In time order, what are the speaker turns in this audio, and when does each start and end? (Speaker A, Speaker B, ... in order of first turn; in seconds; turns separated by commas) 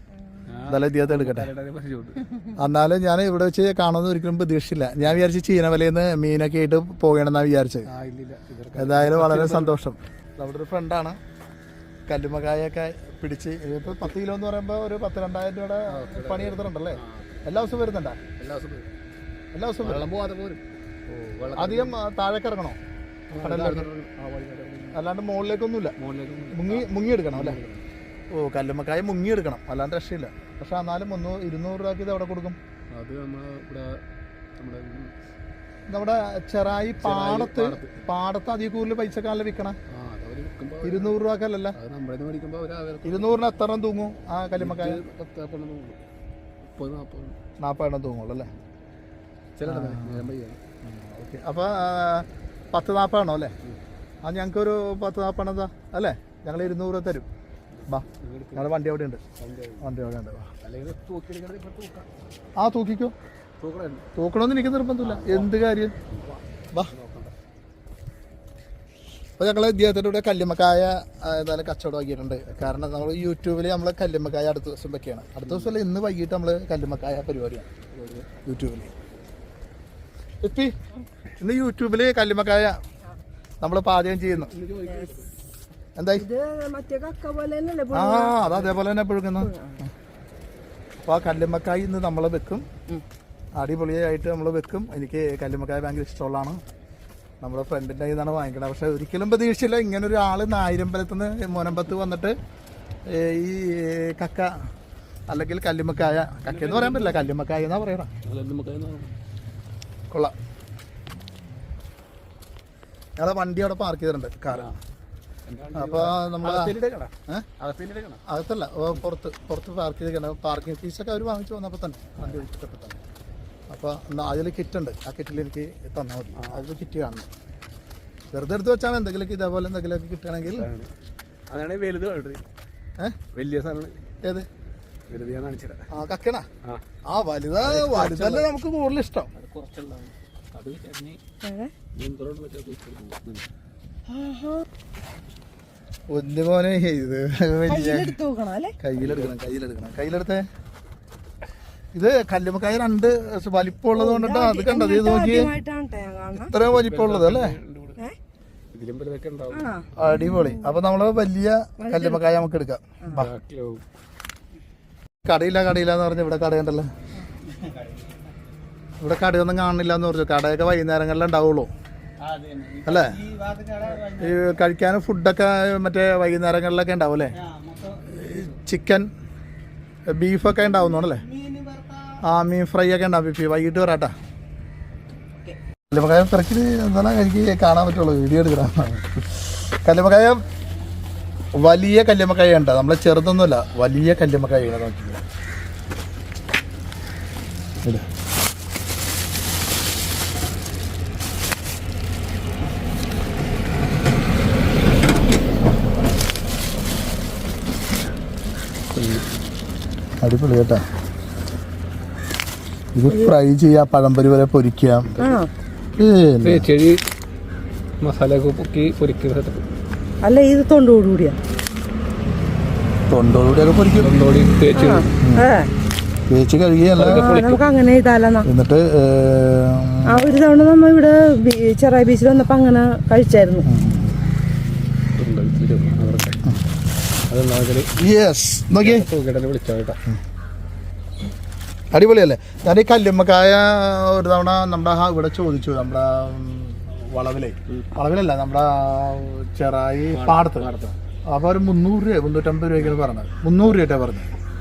Speaker A: 0.1-0.7, Speaker B: 0.5-2.3, Speaker C: 0.7-1.5, Speaker C: 2.5-7.9, Speaker B: 7.8-9.7, Speaker C: 8.8-11.2, Speaker C: 12.1-18.2, Speaker B: 15.9-17.6, Speaker B: 18.2-18.9, Speaker C: 19.5-20.6, Speaker B: 19.8-22.0, Speaker C: 21.5-22.8, Speaker B: 23.3-25.0, Speaker C: 23.3-23.9, Speaker C: 24.9-25.9, Speaker B: 26.0-27.9, Speaker C: 26.5-27.6, Speaker C: 28.3-32.6, Speaker B: 32.9-34.0, Speaker B: 34.6-35.1, Speaker C: 35.9-39.8, Speaker B: 37.0-38.0, Speaker B: 39.9-41.2, Speaker C: 40.8-41.8, Speaker B: 41.7-43.4, Speaker C: 43.0-45.0, Speaker B: 44.6-46.1, Speaker B: 46.6-47.4, Speaker C: 47.6-48.5, Speaker B: 49.6-50.6, Speaker C: 49.6-50.3, Speaker C: 50.8-53.5, Speaker C: 54.2-57.3, Speaker B: 57.7-58.7, Speaker C: 57.9-59.2, Speaker B: 59.4-59.9, Speaker C: 59.8-60.5, Speaker B: 60.6-62.1, Speaker C: 62.6-63.1, Speaker B: 63.6-64.1, Speaker C: 64.2-66.0, Speaker B: 65.0-67.3, Speaker C: 69.4-77.7, Speaker B: 75.5-75.8, Speaker B: 77.9-78.3, Speaker C: 78.5-78.9, Speaker C: 80.4-80.8, Speaker C: 81.4-82.8, Speaker C: 83.6-84.5, Speaker B: 84.3-85.3, Speaker A: 84.8-85.2, Speaker C: 86.0-86.2, Speaker A: 86.1-88.4, Speaker C: 87.9-89.9, Speaker A: 89.4-89.8, Speaker C: 91.0-92.7, Speaker C: 93.5-96.6, Speaker C: 97.4-102.4, Speaker C: 103.0-104.5, Speaker C: 105.3-108.1, Speaker B: 106.4-107.2, Speaker B: 108.2-109.1, Speaker C: 113.2-114.8, Speaker B: 114.5-114.8, Speaker B: 115.5-118.2, Speaker C: 115.7-116.7, Speaker C: 118.2-123.0, Speaker C: 123.7-127.3, Speaker B: 126.3-126.6, Speaker C: 128.3-130.7, Speaker B: 130.5-130.9, Speaker B: 131.5-132.4, Speaker B: 133.3-134.0, Speaker B: 135.1-135.9, Speaker C: 135.9-136.5, Speaker C: 137.1-139.3, Speaker B: 137.6-138.5, Speaker B: 139.3-141.2, Speaker A: 141.4-141.7, Speaker B: 141.9-143.5, Speaker A: 144.1-144.7, Speaker C: 146.1-148.2, Speaker A: 147.7-148.8, Speaker C: 148.8-150.4, Speaker B: 148.9-149.3, Speaker C: 151.9-155.5, Speaker A: 153.9-156.5, Speaker C: 156.4-157.6, Speaker B: 156.5-158.0, Speaker B: 158.7-159.7, Speaker A: 159.5-160.8, Speaker C: 159.9-163.3, Speaker A: 161.8-162.4, Speaker B: 163.1-163.8, Speaker C: 165.2-166.9, Speaker B: 167.6-168.0, Speaker C: 169.0-171.7, Speaker B: 172.2-174.4, Speaker C: 172.8-173.1, Speaker C: 174.0-177.3, Speaker B: 177.5-178.5, Speaker C: 178.1-179.1, Speaker C: 180.1-181.2, Speaker B: 181.4-182.2, Speaker C: 182.2-184.1, Speaker C: 185.9-190.4, Speaker C: 191.6-195.2, Speaker B: 208.9-209.2, Speaker C: 210.2-210.8, Speaker C: 212.9-215.2, Speaker A: 213.1-213.3, Speaker A: 215.2-215.5, Speaker C: 216.0-216.7, Speaker B: 216.4-217.0, Speaker B: 218.0-219.6, Speaker A: 220.2-221.4, Speaker C: 223.1-224.1, Speaker B: 224.0-225.1, Speaker A: 224.7-225.7, Speaker C: 225.2-225.5, Speaker C: 226.3-227.4, Speaker B: 227.0-227.6, Speaker A: 227.0-228.5, Speaker C: 228.4-230.4, Speaker A: 230.0-233.7, Speaker C: 233.6-234.2, Speaker B: 235.2-236.5, Speaker B: 237.3-238.0, Speaker C: 238.0-239.1, Speaker B: 238.8-240.0, Speaker C: 241.9-250.7, Speaker B: 250.1-250.9, Speaker C: 251.3-254.3